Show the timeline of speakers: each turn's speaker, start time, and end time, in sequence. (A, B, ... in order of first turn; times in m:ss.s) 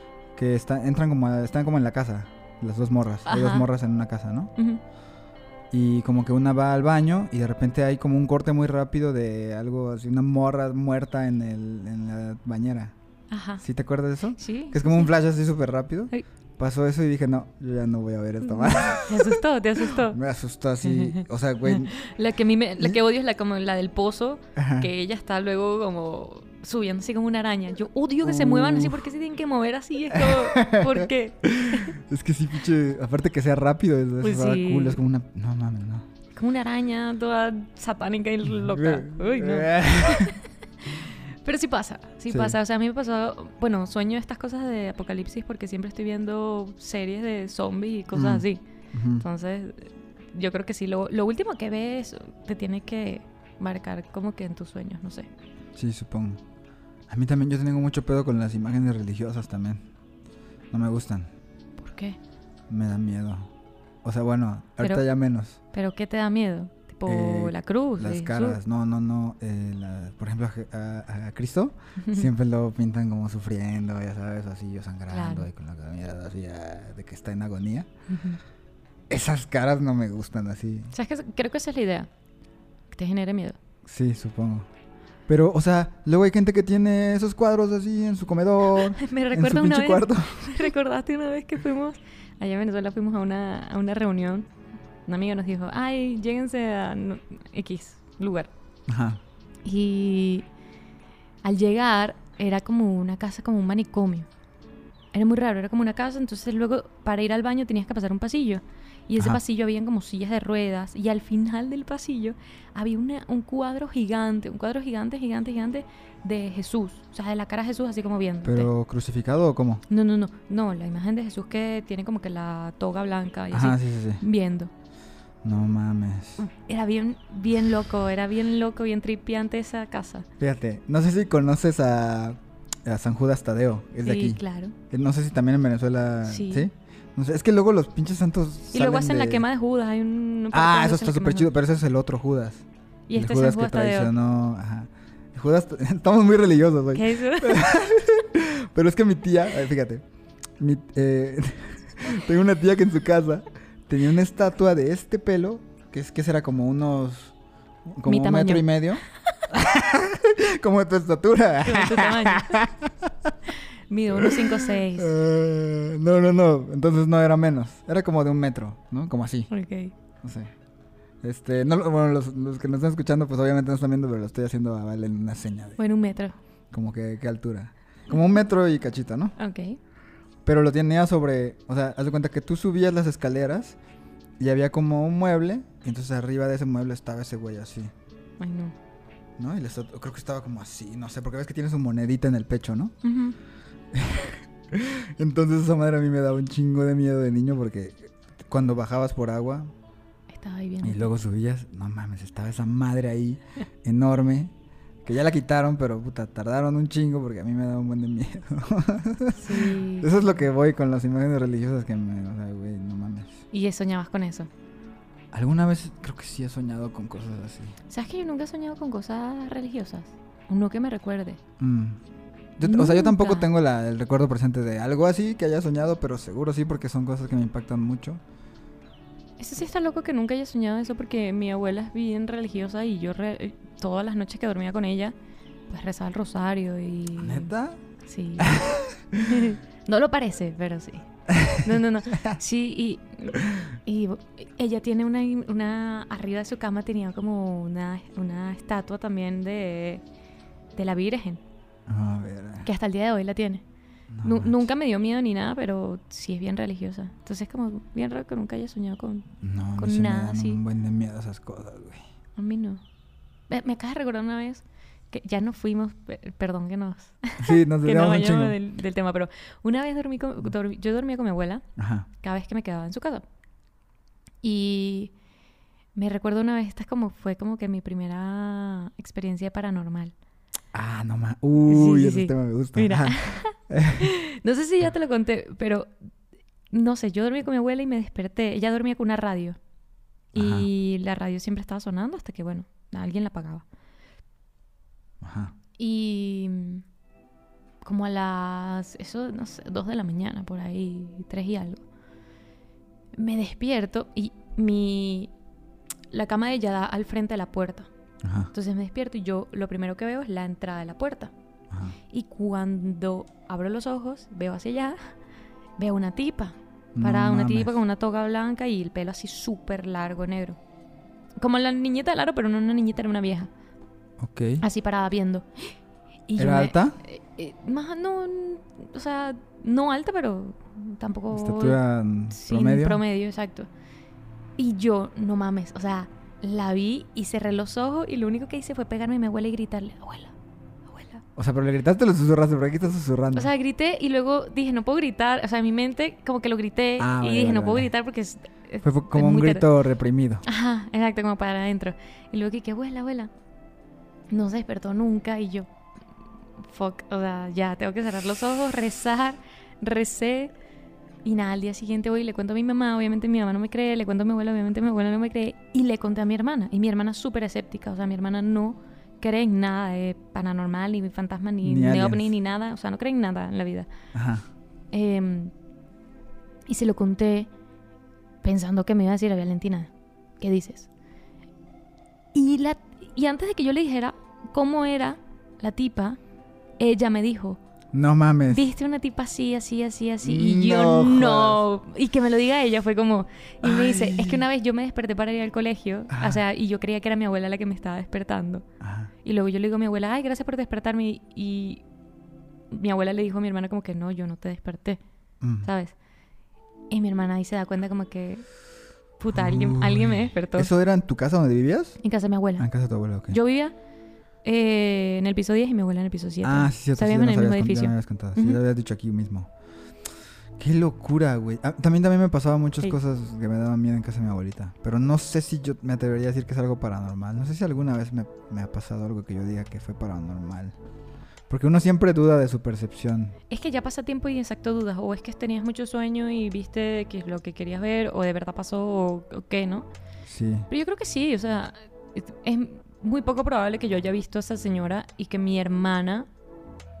0:00.3-0:04.5 A
0:03.2-0:03.7 B
0:05.7-0:12.9 A
0:13.3-0:13.6 B
0:13.6-0:22.0 A
0:14.4-0:15.1 B
0:18.4-0:20.2 B
0:20.8-0:32.0 B
0:24.6-0:24.9 A
0:28.2-0:29.1 A
0:30.1-0:36.1 A
0:34.2-0:35.0 B
0:36.3-0:48.6 B
0:38.4-0:40.4 A
0:42.3-0:42.6 A
0:48.1-0:49.2 A
0:49.1-0:55.3 B
0:55.8-0:56.4 A
0:57.1-0:59.8 A
1:00.7-1:01.3 A
1:01.8-1:02.2 B
1:02.7-1:03.5 A
1:04.0-1:05.6 A
1:05.7-1:08.6 B
1:07.0-1:17.9 A
1:12.0-1:12.3 B
1:15.1-1:15.5 B
1:18.1-1:18.4 B
1:19.1-1:20.9 A
1:20.9-1:22.1 B
1:22.9-1:23.6 B
1:23.8-1:24.7 A
1:25.3-1:30.6 A
1:28.8-1:34.5 B
1:35.1-1:38.5 B
1:38.9-1:39.2 A
1:39.6-1:40.5 B
1:41.4-1:44.3 B
1:45.1-1:58.7 B
1:58.4-1:59.8 A
1:59.9-2:04.7 B
2:03.5-2:04.2 A
2:05.4-2:06.4 A
2:06.4-2:10.3 B
2:10.4-2:19.4 A
2:14.0-2:14.7 B
2:16.2-2:16.7 B
2:18.6-2:21.5 B
2:20.5-2:30.0 A
2:23.1-2:24.1 B
2:26.9-2:27.7 B
2:30.6-2:37.3 A
2:37.9-2:43.3 A
2:38.0-2:38.7 B
2:41.6-2:42.6 B
2:43.9-2:45.1 B
2:44.1-2:49.5 A
2:49.5-2:49.9 B
2:50.2-2:50.5 A
2:51.2-2:55.8 A
2:55.8-2:56.4 B
2:56.7-2:59.3 A
2:59.4-2:59.8 B
3:00.4-3:03.8 A
3:04.4-3:07.9 A
3:08.4-3:08.7 B
3:09.4-3:13.0 A
3:13.0-3:13.4 B
3:13.9-3:19.7 A
3:20.3-3:21.1 B
3:20.8-3:24.5 A
3:25.0-3:33.4 A
3:29.3-3:30.3 B
3:33.5-3:34.5 B
3:35.3-3:37.8 A
3:37.9-3:41.4 B
3:41.6-3:42.0 A
3:42.6-3:48.2 A
3:42.6-3:43.5 B
3:49.4-3:55.1 B
3:55.7-3:57.5 B
3:57.2-3:57.8 A
3:58.0-3:58.7 B
3:58.4-3:59.5 A
3:59.2-4:10.0 B
4:01.3-4:02.4 A
4:10.7-4:11.4 B
4:11.9-4:12.7 A
4:12.6-4:13.6 B
4:14.1-4:14.6 A
4:14.2-4:20.6 B
4:19.4-4:22.0 A
4:22.4-4:22.8 B
4:23.5-4:31.6 B
4:27.4-4:28.6 A
4:31.8-4:32.1 A
4:32.2-4:33.2 B
4:34.4-4:35.1 B
4:35.9-4:40.1 B
4:40.7-4:44.1 A
4:41.7-4:45.9 B
4:46.7-4:49.6 B
4:50.3-4:50.7 A
4:50.3-4:53.6 B
4:55.2-4:55.5 A
4:55.8-4:56.8 B
4:57.8-5:01.8 B
5:03.1-5:05.3 B
5:06.1-5:07.9 B
5:08.2-5:08.5 A
5:08.5-5:11.3 B
5:11.7-5:12.0 A
5:12.1-5:15.1 B
5:15.8-5:20.6 B
5:16.9-5:17.7 A
5:21.4-5:23.5 B
5:24.2-5:24.6 A
5:24.6-5:25.7 B
5:26.3-5:31.8 B
5:26.4-5:27.0 A
5:31.3-5:33.0 A
5:32.3-5:33.7 B
5:34.6-5:40.3 B
5:40.9-5:41.2 B
5:41.4-5:43.5 A
5:43.3-5:49.7 B
5:47.0-5:47.9 A
5:48.8-5:50.4 A
5:50.4-5:53.3 B
5:54.3-5:55.7 B
5:56.6-6:00.5 B
6:01.2-6:13.9 B
6:11.6-6:12.3 A
6:14.1-6:14.4 A
6:14.9-6:15.5 B
6:16.7-6:17.5 B
6:18.4-6:20.9 B
6:22.3-6:26.2 B
6:26.8-6:27.6 B
6:27.9-6:28.7 A
6:28.5-6:38.6 B
6:30.2-6:31.6 A
6:33.6-6:34.4 A
6:36.1-6:36.4 A
6:38.8-6:39.1 A
6:39.2-6:41.8 B
6:42.7-6:45.0 B
6:45.4-6:45.7 A
6:45.6-6:45.9 B
6:46.9-6:48.4 B
6:49.2-6:50.7 B
6:49.3-6:52.0 A
6:52.0-6:52.7 B
6:52.6-6:53.4 A
6:53.3-6:53.7 B
6:54.4-6:58.6 B
6:56.4-6:59.5 A
7:00.6-7:10.8 A
7:11.5-7:13.4 A
7:13.5-7:19.9 B
7:20.2-7:20.7 A
7:20.7-7:26.3 B